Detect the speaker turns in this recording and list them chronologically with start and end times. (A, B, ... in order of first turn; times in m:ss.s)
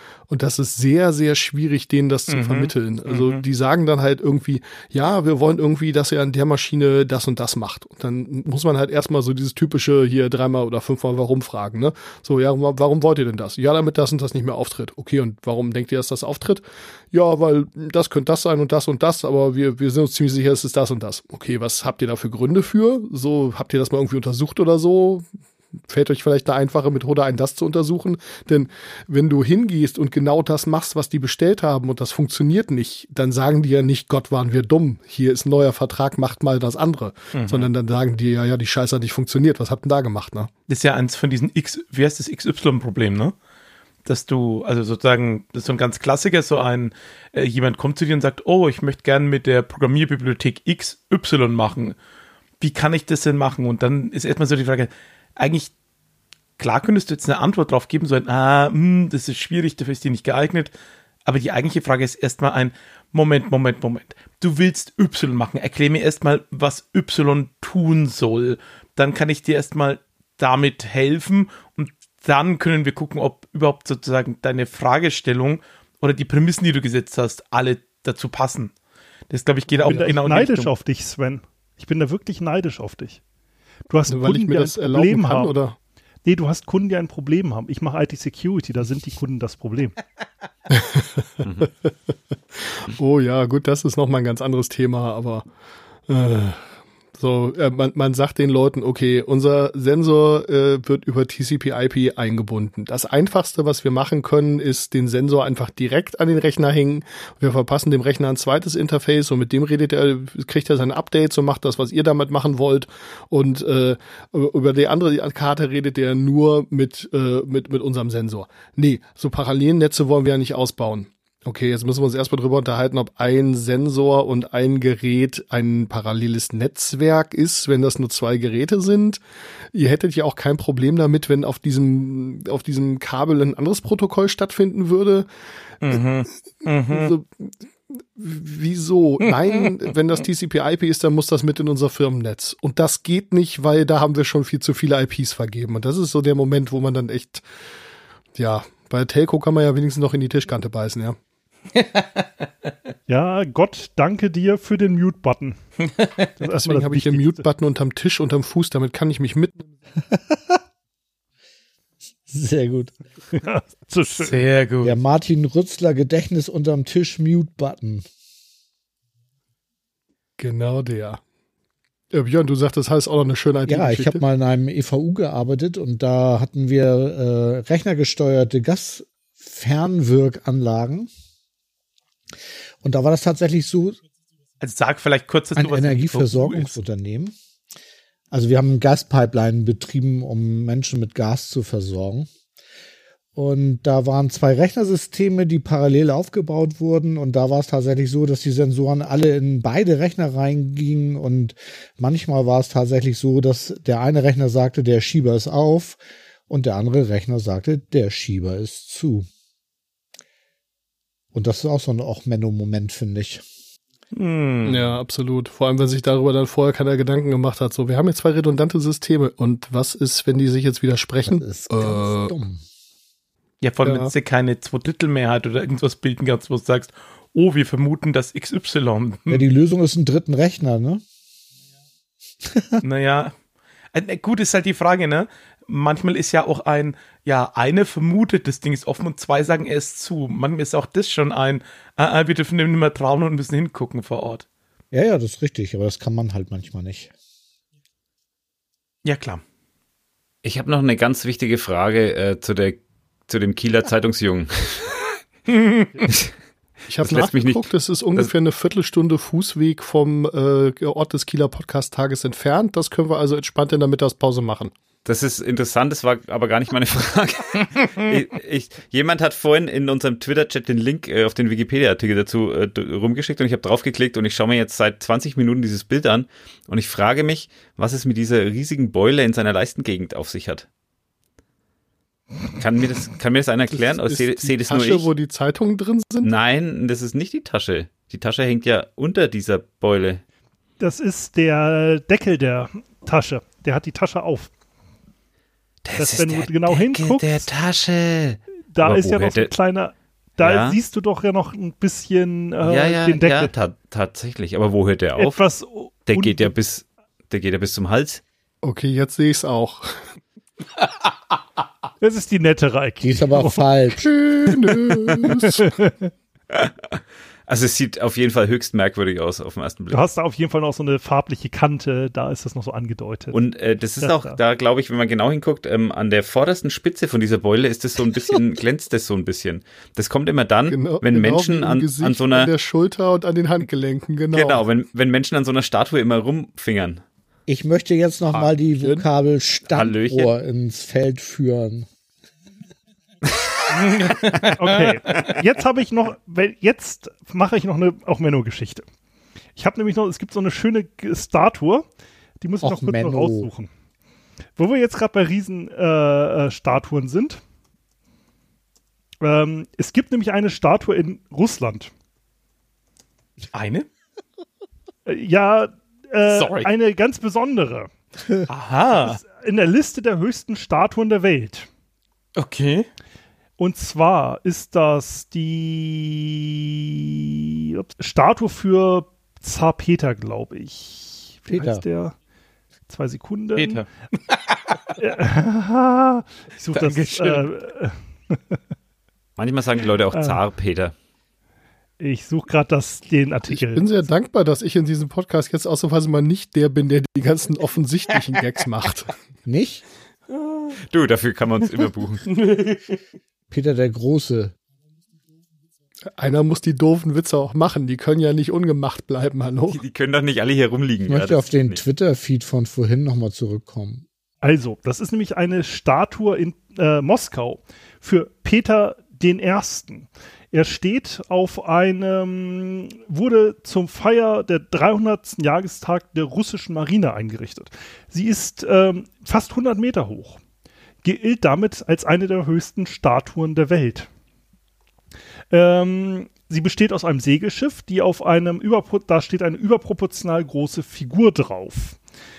0:00.3-0:25.3 A
0:02.3-0:03.4 B
0:25.9-0:40.5 A
0:37.4-0:37.7 B
0:40.7-0:43.3 B
0:44.0-0:52.0 B
0:52.6-0:55.7 B
0:56.6-1:00.7 B
1:01.2-1:18.7 B
1:19.3-1:20.7 B
1:19.9-1:23.2 C
1:23.9-1:25.6 C
1:24.1-1:25.8 A
1:26.2-1:29.9 C
1:30.7-1:31.9 A
1:31.4-1:31.7 D
1:32.6-1:35.5 A
1:36.1-2:09.2 A
2:09.7-2:16.0 A
2:15.8-2:17.1 B
2:16.9-2:27.4 A
2:19.2-2:19.7 B
2:28.4-2:31.2 A
2:31.8-2:32.3 B
2:33.1-2:35.6 C
2:35.8-2:36.3 B
2:36.4-2:37.4 C
2:36.4-2:39.7 A
2:40.1-2:40.6 E
2:42.3-2:43.0 E
2:43.3-2:44.4 C
2:44.2-2:45.0 B
2:44.8-2:48.0 E
2:50.4-2:51.2 A
2:52.1-2:54.2 A
2:53.7-3:01.1 E
3:02.8-3:04.0 E
3:04.6-3:06.8 B
3:05.6-3:07.3 E
3:08.3-3:12.3 E
3:13.4-3:29.3 E
3:31.3-3:33.4 E
3:34.1-3:34.9 B
3:34.6-3:42.4 A
3:41.2-3:42.6 E
3:43.6-3:49.4 B
3:43.8-3:44.1 A
3:49.3-3:51.0 E
3:52.5-3:52.8 E
3:52.8-3:53.3 B
3:53.9-4:04.4 B
4:04.9-4:07.1 E
4:09.0-4:09.4 B
4:10.4-4:15.2 D
4:15.5-4:16.1 B
4:16.9-4:24.7 A
4:17.0-4:18.3 D
4:25.0-4:40.7 D
4:42.6-4:45.1 D
4:43.7-4:46.3 A
4:46.2-4:50.2 D
4:50.8-4:54.5 C
4:55.8-4:59.5 D
4:56.0-4:57.5 C
4:58.7-5:03.5 C
5:00.4-5:00.8 D
5:02.6-5:05.4 D
5:05.2-5:06.5 C
5:06.1-5:08.2 D
5:08.6-5:10.0 A
5:12.0-5:13.7 C
5:13.0-5:14.1 E
5:14.0-5:15.7 A
5:15.1-5:16.1 C
5:16.5-5:20.0 D
5:19.9-5:23.4 C
5:23.3-5:32.5 D
5:24.0-5:24.4 C
5:30.7-5:34.6 A
5:34.3-5:37.0 D
5:37.5-5:41.9 E
5:39.7-5:40.3 D
5:43.7-5:45.4 B
5:44.6-5:48.8 C
5:49.6-5:51.8 C
5:52.4-5:53.7 C
5:52.6-5:53.5 E
5:54.6-5:57.4 C
5:59.2-6:01.9 C
6:03.5-6:03.9 B
6:05.1-6:07.9 C
6:06.3-6:06.7 B
6:08.5-6:09.2 B
6:09.0-6:11.7 C
6:12.4-6:12.9 B
6:13.6-6:22.2 C
6:21.5-6:21.8 E
6:22.9-6:23.8 C
6:23.6-6:25.0 B
6:25.0-6:28.4 C
6:26.7-6:27.4 B
6:29.4-6:30.9 D
6:30.1-6:30.4 C
6:32.0-6:33.9 C
6:33.5-6:39.1 A
6:39.4-6:39.8 E
6:40.3-6:40.8 B
6:40.9-6:42.3 D
6:42.3-6:43.0 B
6:43.5-6:44.5 E
6:46.2-6:49.8 A
6:49.7-6:51.8 D
6:51.1-6:54.0 E
6:54.4-7:10.4 C
7:11.0-7:14.1 C
7:15.5-7:22.0 C